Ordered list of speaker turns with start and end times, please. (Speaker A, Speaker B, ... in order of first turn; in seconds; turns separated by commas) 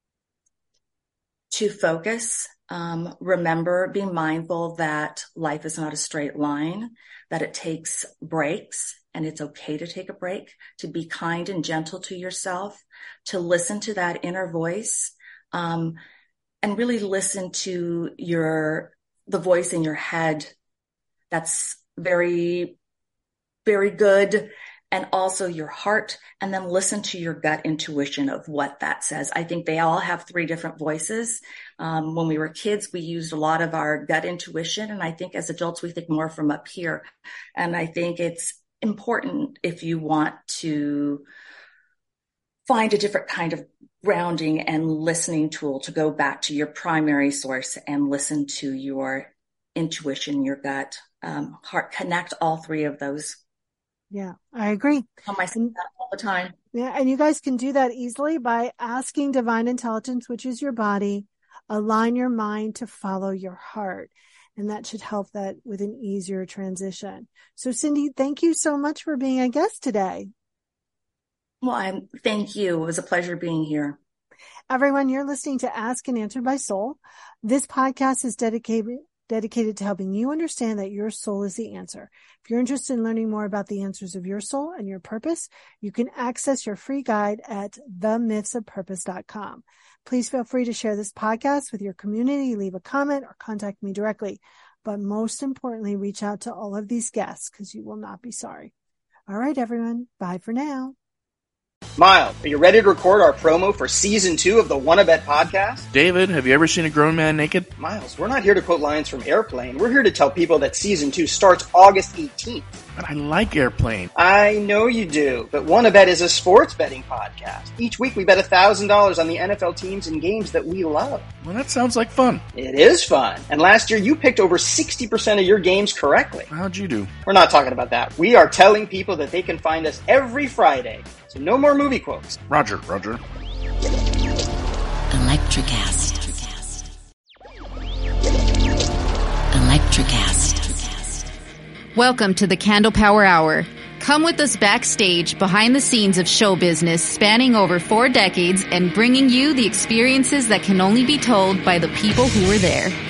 Speaker A: 1.5-12.7, Speaker A: 13.3-15.9, Speaker A: 16.6-20.4, Speaker A: 21.3-22.6, Speaker A: 23.7-37.0, Speaker A: 37.5-41.2, Speaker A: 42.7-53.4, Speaker B: 54.1-55.7, Speaker A: 55.3-56.5, Speaker B: 56.7-70.3, Speaker A: 71.7-73.9, Speaker B: 74.7-98.7, Speaker B: 99.3-100.9, Speaker C: 102.0-105.8, Speaker D: 105.9-107.7, Speaker C: 107.8-112.7, Speaker D: 113.0-114.1, Speaker C: 114.2-121.3, Speaker D: 121.4-122.4, Speaker C: 122.5-126.5, Speaker D: 126.5-127.1, Speaker C: 127.2-132.4, Speaker D: 132.5-133.2, Speaker E: 135.1-136.3, Speaker E: 139.5-140.8, Speaker F: 141.9-152.9